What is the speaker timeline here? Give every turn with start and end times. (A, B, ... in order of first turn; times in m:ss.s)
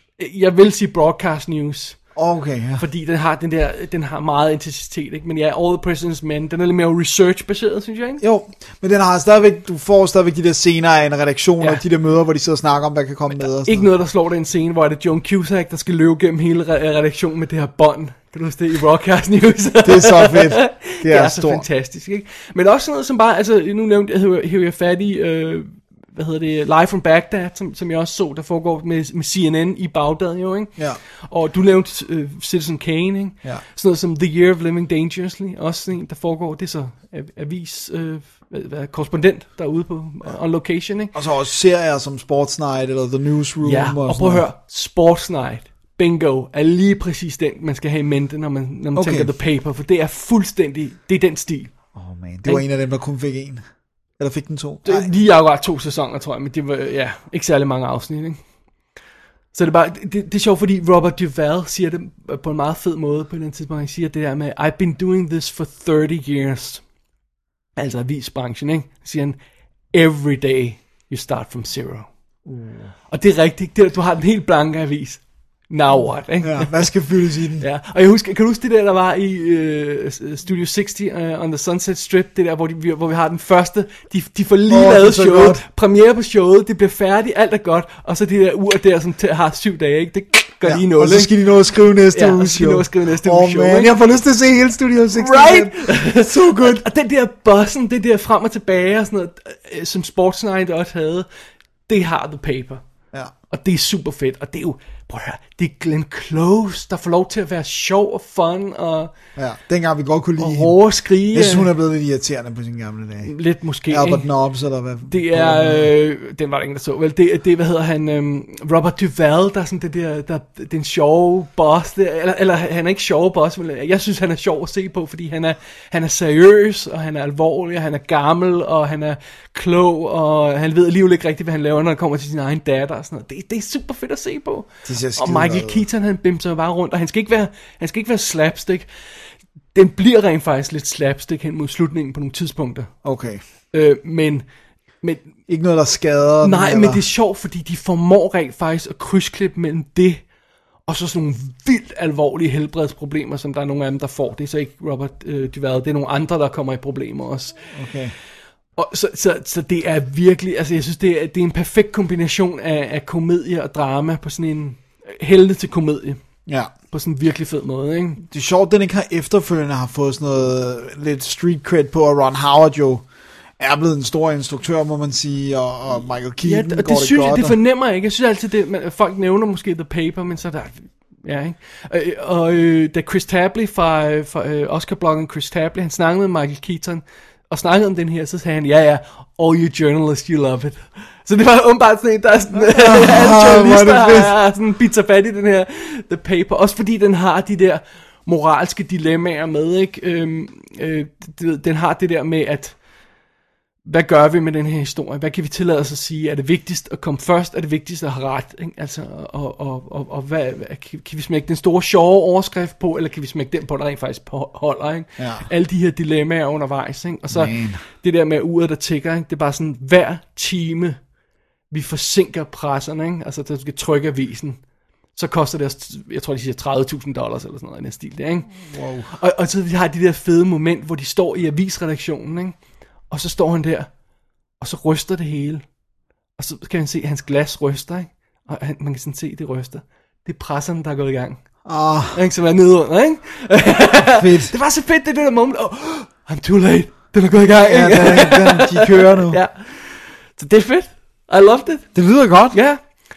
0:00.2-0:02.0 A
0:02.2-0:02.8 B
0:02.8-0:08.2 A
0:08.2-0:13.9 B
0:13.3-0:41.1 A
0:19.8-0:21.6 B
0:41.1-0:44.4 B
0:43.6-0:51.7 A
0:49.0-0:49.3 B
0:51.9-0:53.6 B
0:54.2-0:55.1 B
0:54.8-0:58.4 A
0:59.5-1:06.8 A
1:07.8-1:09.4 A
1:09.9-1:12.1 A
1:12.4-1:12.9 B
1:13.1-1:16.9 A
1:16.4-1:17.6 B
1:17.6-1:31.3 A
1:24.7-1:25.6 B
1:30.6-1:36.8 B
1:32.1-1:33.9 A
1:35.1-1:41.3 A
1:41.9-1:42.8 A
1:43.5-1:49.1 A
1:49.4-1:50.8 B
1:50.4-1:51.7 A
1:51.3-1:53.3 B
1:53.2-1:54.3 A
1:53.9-1:55.9 B
1:55.1-2:18.9 A
2:14.8-2:15.8 B
2:19.7-2:22.9 A
2:23.0-2:23.4 B
2:23.7-2:24.4 A
2:25.0-2:25.3 A
2:25.5-2:27.0 B
2:26.4-2:30.2 A
2:30.9-2:37.6 A
2:37.7-2:38.1 B
2:38.8-2:46.2 A
2:46.9-2:48.2 A
2:48.3-2:53.0 B
2:53.6-2:57.6 B
2:56.4-3:22.8 A
3:12.5-3:14.3 B
3:23.8-3:41.0 A
3:35.2-3:35.4 B
3:37.3-3:37.8 B
3:41.7-3:44.6 A
3:45.1-3:48.5 A
3:48.7-3:49.1 B
3:49.1-3:52.6 A
3:53.1-3:53.9 A
3:54.6-3:55.6 A
3:56.4-4:01.4 A
4:01.6-4:02.2 B
4:02.1-4:11.9 A
4:04.1-4:04.5 B
4:07.6-4:09.4 B
4:11.9-4:12.6 B
4:12.5-4:12.8 A